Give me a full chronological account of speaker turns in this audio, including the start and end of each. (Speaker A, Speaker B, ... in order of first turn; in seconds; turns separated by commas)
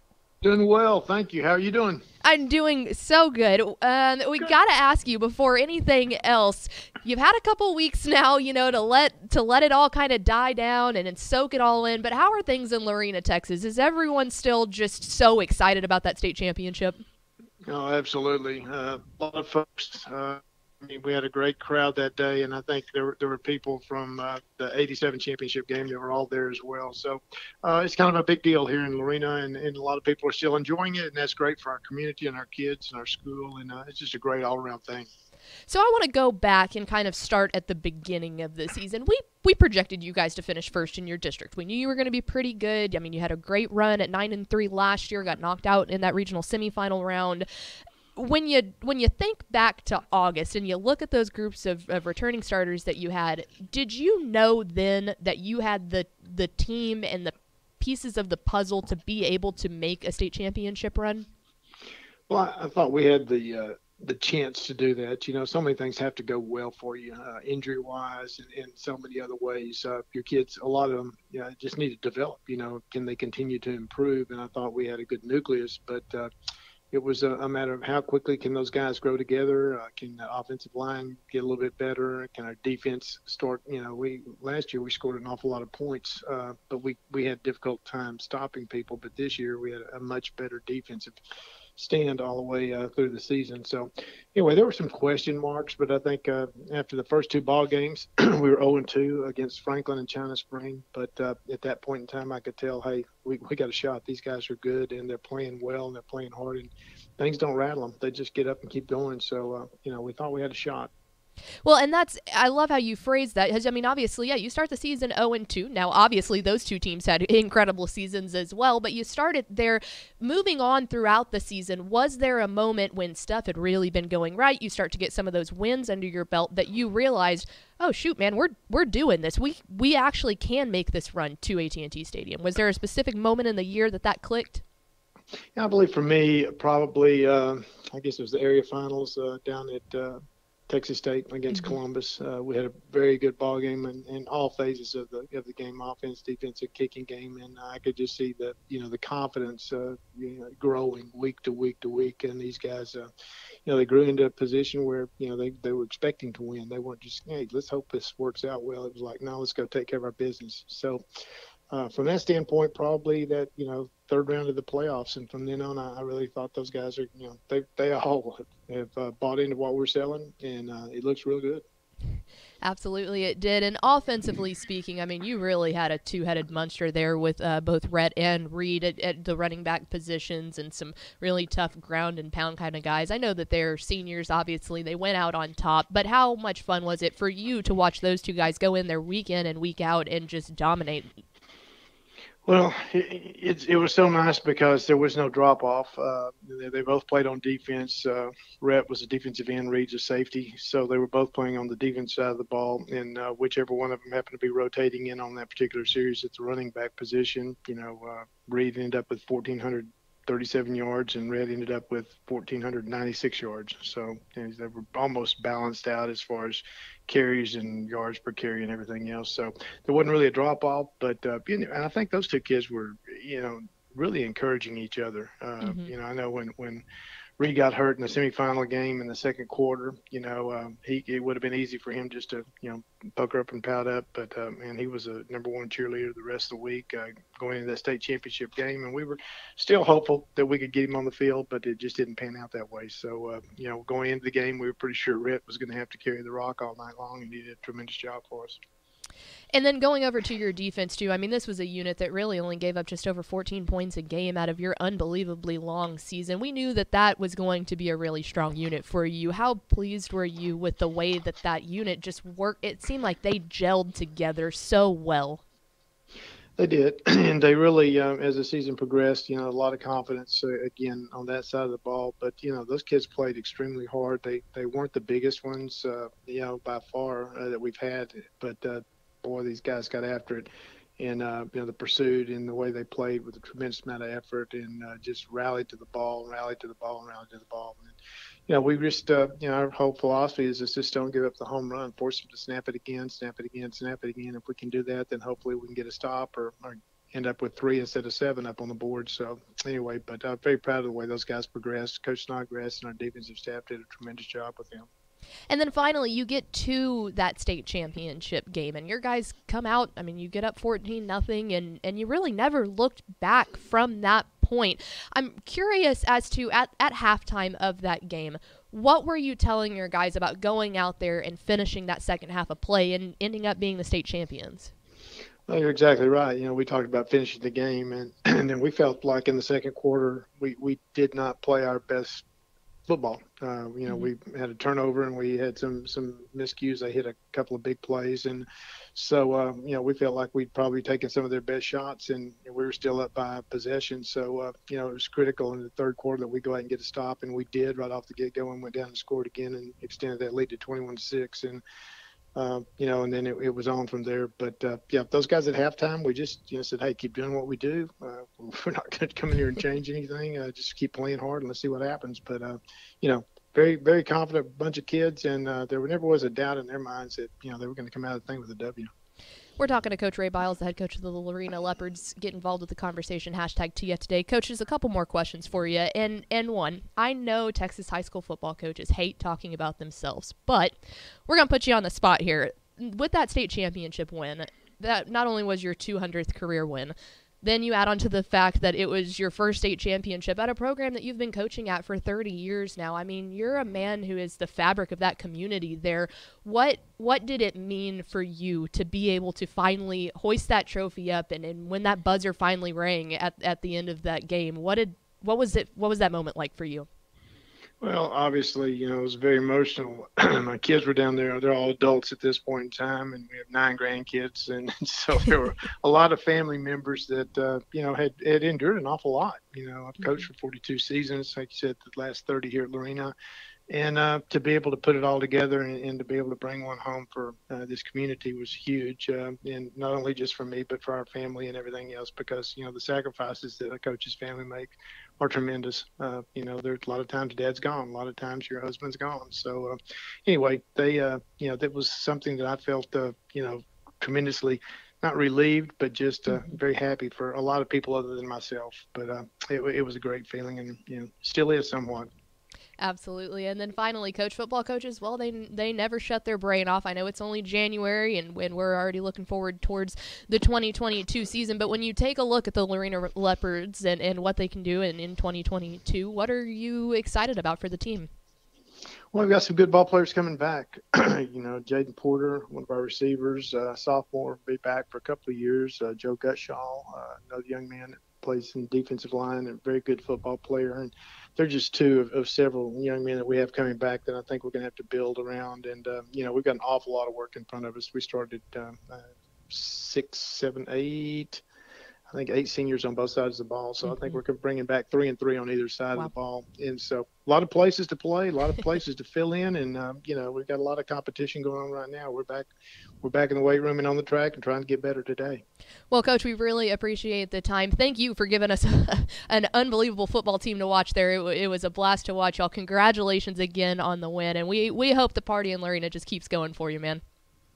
Speaker A: 0.4-2.0, Speaker B: 2.2-17.0, Speaker A: 17.7-35.1, Speaker B: 35.7-47.5, Speaker B: 48.1-61.3, Speaker A: 62.3-76.3, Speaker A: 76.9-91.2, Speaker A: 91.8-110.9, Speaker B: 111.6-134.6, Speaker A: 135.6-153.1, Speaker A: 153.7-161.0, Speaker A: 161.7-171.6, Speaker B: 172.6-191.1, Speaker A: 192.5-226.8, Speaker B: 225.6-225.9, Speaker A: 227.4-248.6, Speaker B: 249.5-265.4, Speaker A: 266.6-288.0, Speaker A: 288.5-304.9, Speaker B: 305.5-324.7, Speaker A: 325.5-332.2, Speaker A: 332.9-351.6, Speaker A: 352.4-368.9, Speaker B: 369.6-380.8, Speaker B: 381.3-406.9, Speaker A: 407.8-423.1, Speaker A: 423.7-452.1, Speaker B: 452.8-468.1, Speaker A: 469.1-491.4, Speaker A: 492.1-502.5, Speaker B: 493.9-494.2, Speaker A: 503.0-505.4, Speaker B: 505.9-517.0